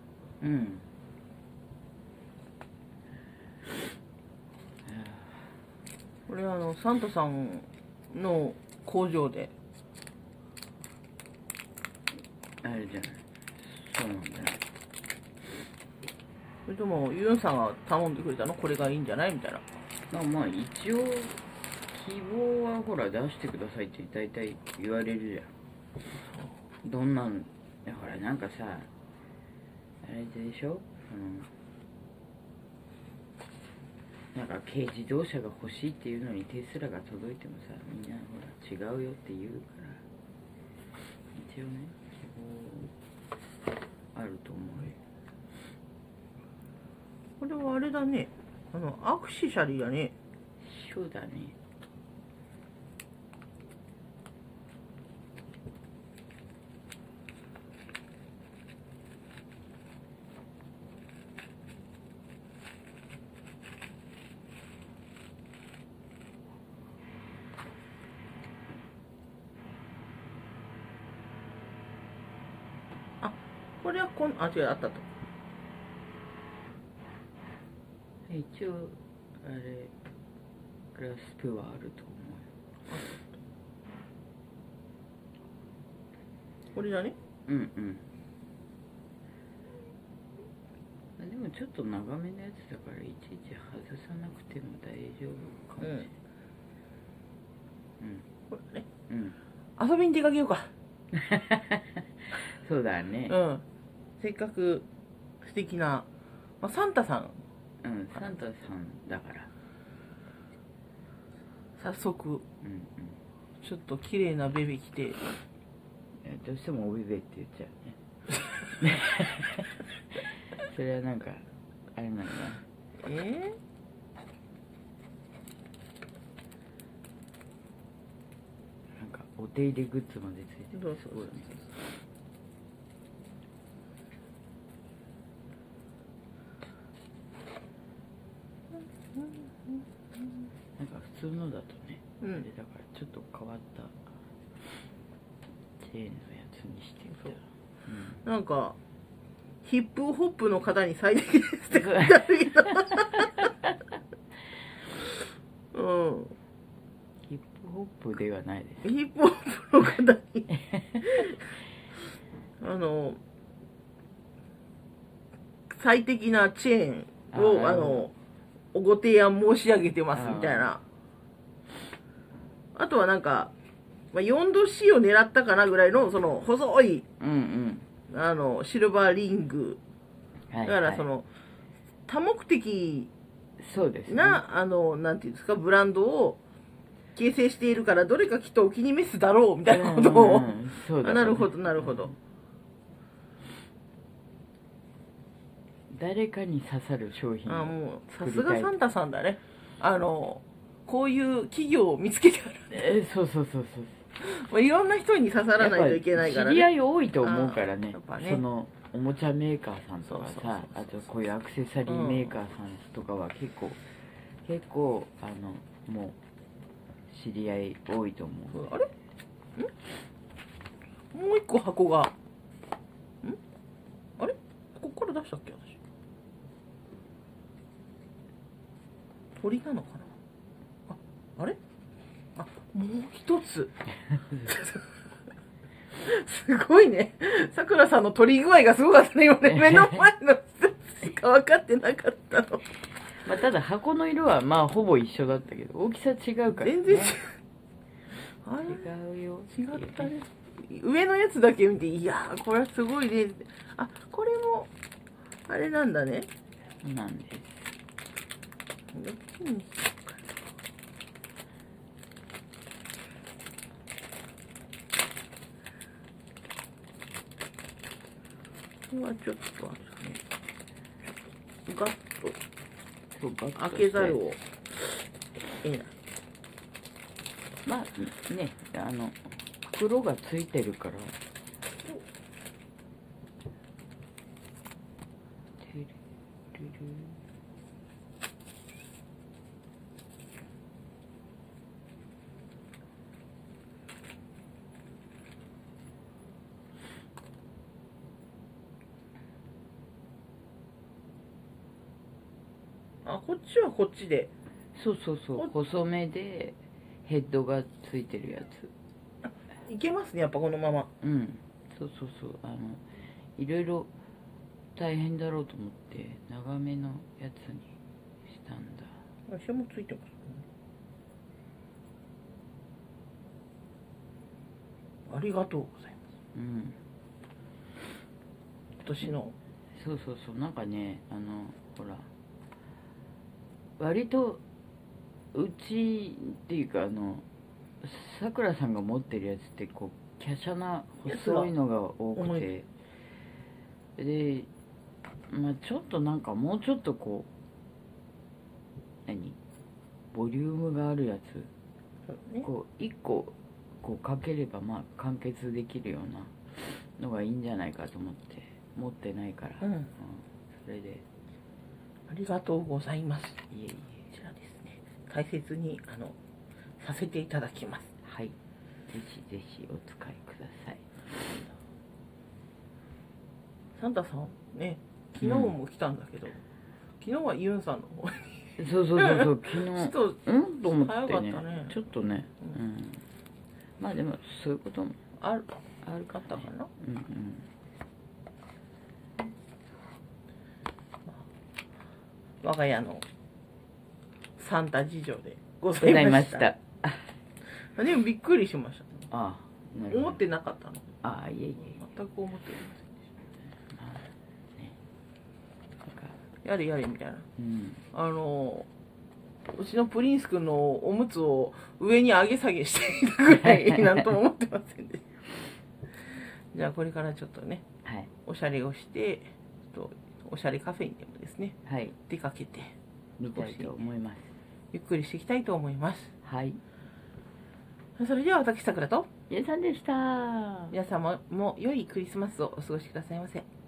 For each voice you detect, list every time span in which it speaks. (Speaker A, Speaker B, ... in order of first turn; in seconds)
Speaker A: 0.4-0.8, 4.8-5.5, 12.6-14.6, 20.1-25.5, 26.8-28.9, 30.0-31.5, 34.3-40.0, 41.3-42.9, 44.1-45.0, 50.6-51.5, 78.3-79.9, 80.9-82.5, 87.5-88.0, 91.2-96.1, 98.0-98.2, 99.1-99.4, 101.1-103.3, 107.8-109.5, 112.6-113.2, 116.2-121.4, 121.9-122.6, 129.0-131.5, 140.8-144.0, 145.8-148.2, 157.3-158.9, 160.6-161.3, 167.3-168.1, 170.1-170.7, 177.2-177.9, 180.5-181.0, 183.6-184.4, 189.7-192.2, 195.9-198.7, 202.7-204.0, 205.6-216.2, 217.1-218.7, 243.2-247.2, 248.6-250.1, 256.8-257.7, 273.1-274.2, 277.6-281.2, 285.6-285.9, 286.5-287.2, 304.7-308.7, 311.0-312.8, 313.4-313.9, 314.8-317.7, 318.3-319.0, 326.3-326.8, 329.8-332.1, 333.8-334.4, 335.3-337.2, 337.8-342.7, 344.0-344.5, 345.3-347.3, 349.1-349.4, 350.1-351.5, 352.4-361.0, 363.5-364.1, 368.0-368.3, 368.9-371.4, 375.2-375.5, 378.6-383.0, 383.8-385.0, 385.8-387.5, 395.7-397.1, 399.1-400.2, 401.0-401.8, 403.7-404.8, 405.8-406.2, 407.4-407.8, 413.5-414.0, 417.8-418.1, 421.6-421.9, 423.2-424.3, 426.2-426.6, 429.3-430.8
Speaker B: 6.3-9.5, 16.7-19.6, 26.1-26.5, 47.4-50.1, 73.2-75.0, 82.9-83.2, 86.7-87.2, 95.8-96.1, 98.5-98.9, 99.8-100.7, 103.3-103.6, 104.2-104.8, 105.4-106.1, 106.6-107.4, 111.8-112.4, 113.6-115.2, 123.0-123.5, 130.7-131.7, 139.1-139.8, 142.2-142.4, 148.2-148.8, 149.6-153.4, 155.7-156.3, 158.8-160.5, 162.6-163.2, 165.8-168.1, 168.7-170.8, 172.7-173.5, 174.1-177.0, 178.1-179.8, 180.6-181.3, 182.1-183.1, 184.1-186.4, 187.1-192.1, 197.5-202.9, 204.2-206.7, 207.2-208.4, 210.1-210.7, 211.8-212.4, 218.5-218.9, 221.1-222.1, 224.2-225.8, 229.3-230.1, 230.9-231.6, 232.3-233.7, 234.4-234.8, 235.9-242.6, 246.6-247.3, 248.4-248.8, 249.5-254.7, 255.5-256.3, 258.9-260.2, 268.9-270.2, 271.7-272.4, 273.6-275.0, 275.6-275.9, 303.0-304.3, 309.6-310.9, 319.3-320.4, 325.1-326.0, 328.8-329.3, 341.0-341.5, 342.1-342.5, 352.1-352.5, 359.6-359.9, 362.1-363.4, 364.1-366.1, 366.8-367.9, 373.8-376.4, 377.0-381.8, 385.2-385.5, 386.1-386.7, 392.4-393.0, 394.4-396.5, 397.7-399.1, 399.9-400.9, 401.8-403.0, 406.4-407.3, 407.9-408.7, 409.5-415.1, 416.5-417.6, 418.2-422.7, 423.3-423.8, 424.7-426.1, 428.0-429.1, 430.7-433.4